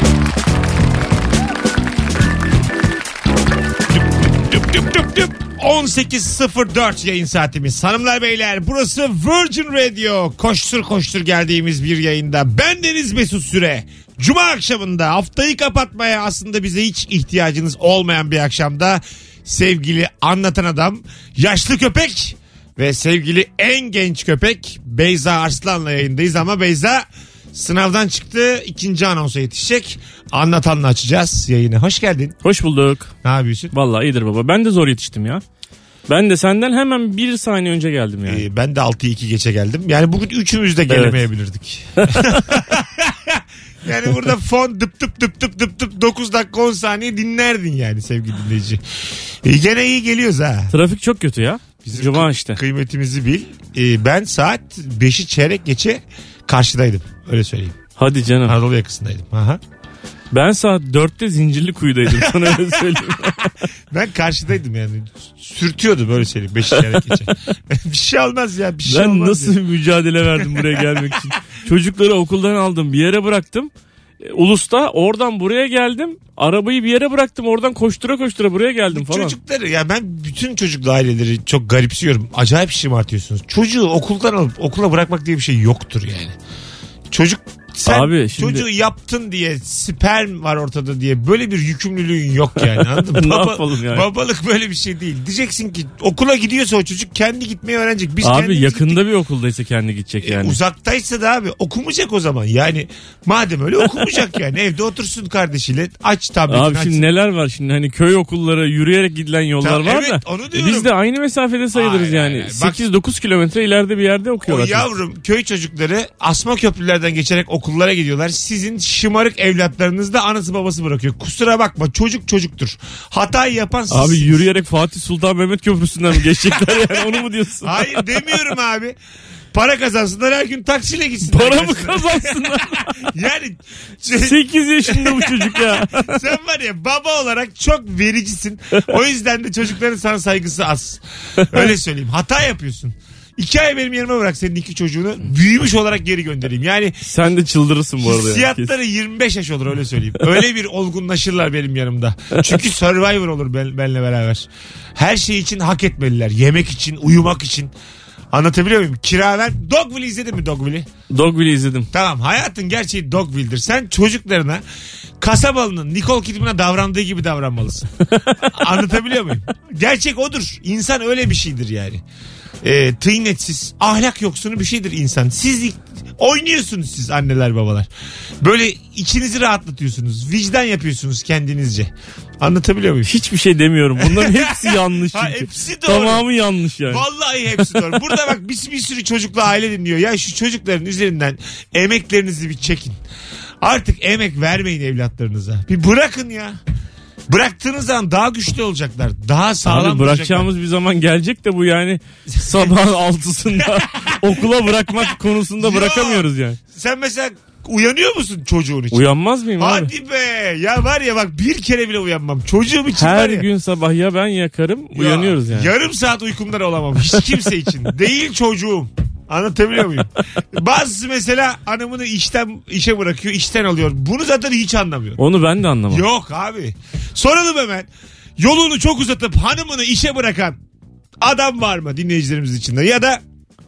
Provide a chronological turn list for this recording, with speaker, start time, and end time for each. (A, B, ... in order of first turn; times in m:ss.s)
0:04.2-0:32.4 A
0:32.4-0:33.1 B
0:33.2-0:33.7 A
0:33.7-0:35.4 B
0:36.1-0:38.4 B
0:38.2-0:48.8 A
0:40.9-0:41.2 B
0:42.0-0:42.4 B
0:49.4-0:50.7 A
0:50.7-0:52.6 B
0:51.8-0:57.8 A
0:58.0-0:58.6 B
0:58.4-0:59.6 A
1:00.3-1:03.5 B
1:02.1-1:02.8 A
1:03.9-1:09.6 A
1:08.9-1:19.4 B
1:18.9-1:26.3 A
1:27.1-1:39.0 A
1:27.8-1:28.6 B
1:33.0-1:34.0 B
1:38.2-1:40.6 B
1:40.2-1:47.1 A
1:46.5-1:54.8 B
1:49.6-1:50.9 A
1:51.7-1:52.8 A
1:54.4-2:04.4 A
2:03.9-2:07.9 B
2:07.6-2:09.0 A
2:09.5-2:27.0 A
2:11.2-2:13.0 B
2:14.1-2:16.2 B
2:27.0-2:28.7 B
2:28.0-2:34.4 A
2:35.0-2:37.7 A
2:38.3-2:40.9 A
2:41.1-2:41.9 B
2:41.9-2:44.6 A
2:45.2-2:47.9 A
2:48.5-2:52.0 A
2:52.6-2:57.9 A
2:58.4-3:03.1 A
3:03.0-3:07.0 B
3:04.0-3:06.2 A
3:06.9-3:13.0 A
3:13.6-3:16.6 A
3:17.3-3:20.5 A
3:19.6-3:26.6 B
3:22.3-3:22.7 A
3:23.6-3:24.3 A
3:25.6-3:29.0 A
3:28.9-3:29.9 B
3:29.6-3:33.4 A
3:33.0-3:35.7 B
3:34.9-3:45.2 A
3:45.2-3:46.0 B
3:45.9-3:50.6 A
3:51.2-3:53.2 A